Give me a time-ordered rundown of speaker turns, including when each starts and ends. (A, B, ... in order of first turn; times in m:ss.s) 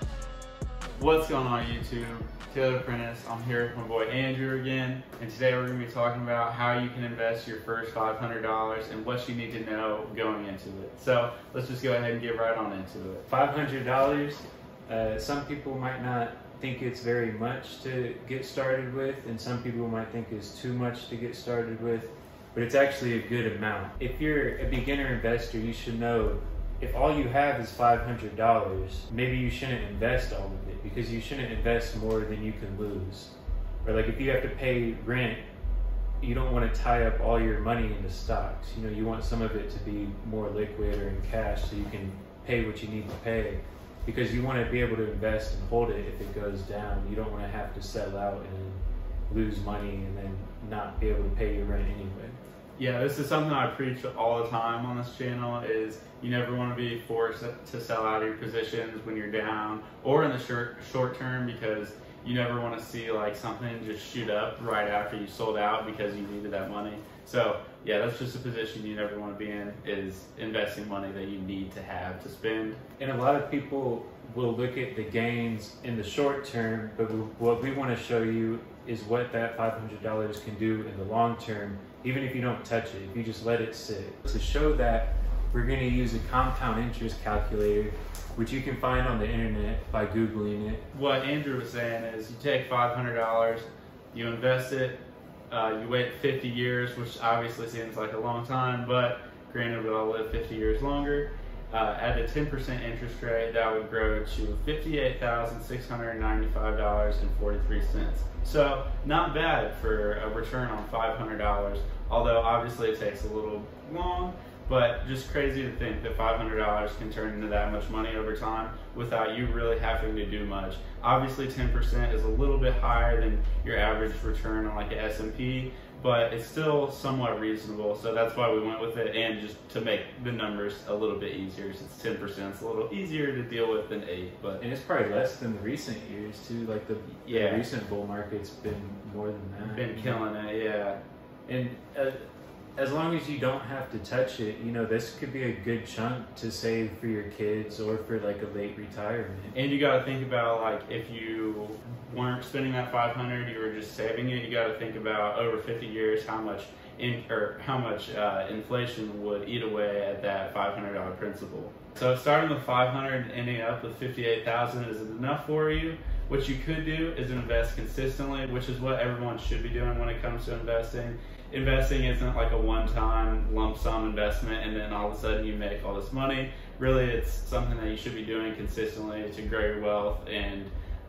0:01.0-0:13.2 A
0:13.3-0:33.3 B
0:33.8-0:35.4 B
0:36.2-0:52.4 B
0:52.8-1:12.8 A
1:13.0-1:30.8 B
1:30.9-2:14.6 A
2:14.6-2:20.2 B
2:17.2-2:17.7 A
2:19.6-2:21.0 A
2:21.5-2:22.2 B
2:22.8-2:29.6 B
2:29.5-3:00.7 A